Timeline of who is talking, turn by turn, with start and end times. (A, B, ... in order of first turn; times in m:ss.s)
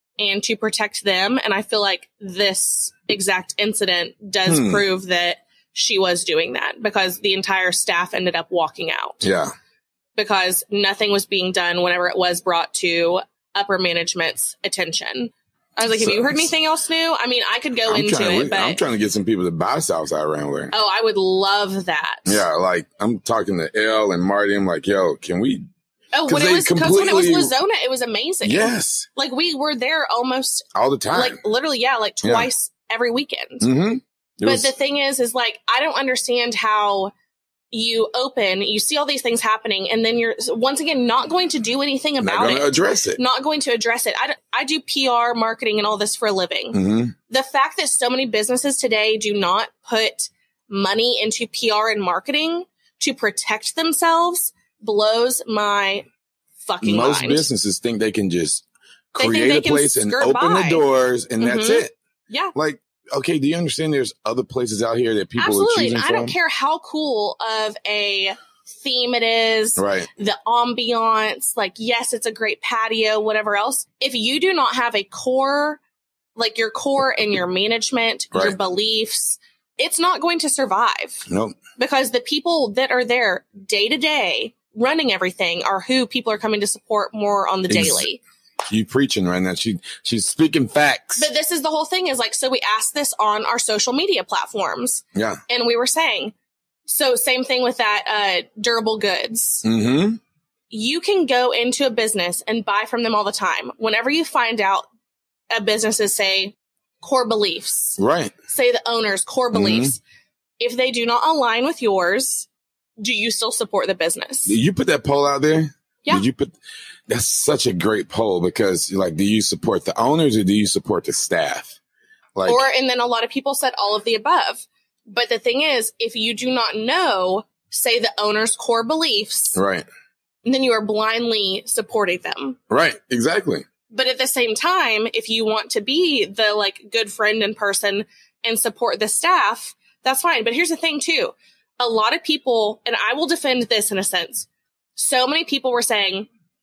0:00.2-0:09.2 A
0:04.5-0:04.8 B
0:09.2-0:09.5 B
0:10.2-0:18.8 A
0:15.9-0:16.5 B
0:17.9-0:20.7 B
0:20.7-0:22.4 A
0:22.2-0:25.7 B
0:26.1-0:33.7 A
0:26.3-0:27.5 B
0:28.4-0:29.1 B
0:30.7-0:31.4 B
0:32.2-0:32.5 B
0:33.6-0:34.7 B
0:34.4-0:37.1 A
0:37.7-0:56.0 A
0:42.2-0:43.2 B
0:46.7-0:47.1 B
0:56.6-0:57.5 A
0:56.8-1:01.9 B
0:59.2-1:00.8 A
1:01.4-1:02.5 A
1:02.5-1:06.3 B
1:05.4-1:15.8 A
1:09.8-1:10.1 B
1:16.4-1:21.2 A
1:21.3-1:21.6 B
1:21.8-1:28.2 A
1:27.7-1:28.0 B
1:28.7-1:31.3 B
1:31.2-1:36.3 A
1:35.1-1:35.4 B
1:36.8-1:39.6 A
1:39.6-1:40.2 B
1:40.7-1:44.9 A
1:45.5-1:50.0 A
1:48.0-1:48.3 B
1:49.5-1:49.9 B
1:50.6-1:52.5 A
1:53.0-1:54.5 A
1:54.4-1:56.5 B
1:57.1-2:01.8 B
2:02.4-2:02.6 B
2:02.4-2:09.6 A
2:09.5-2:09.8 B
2:10.4-2:12.6 A
2:12.7-2:13.6 B
2:13.9-2:26.3 A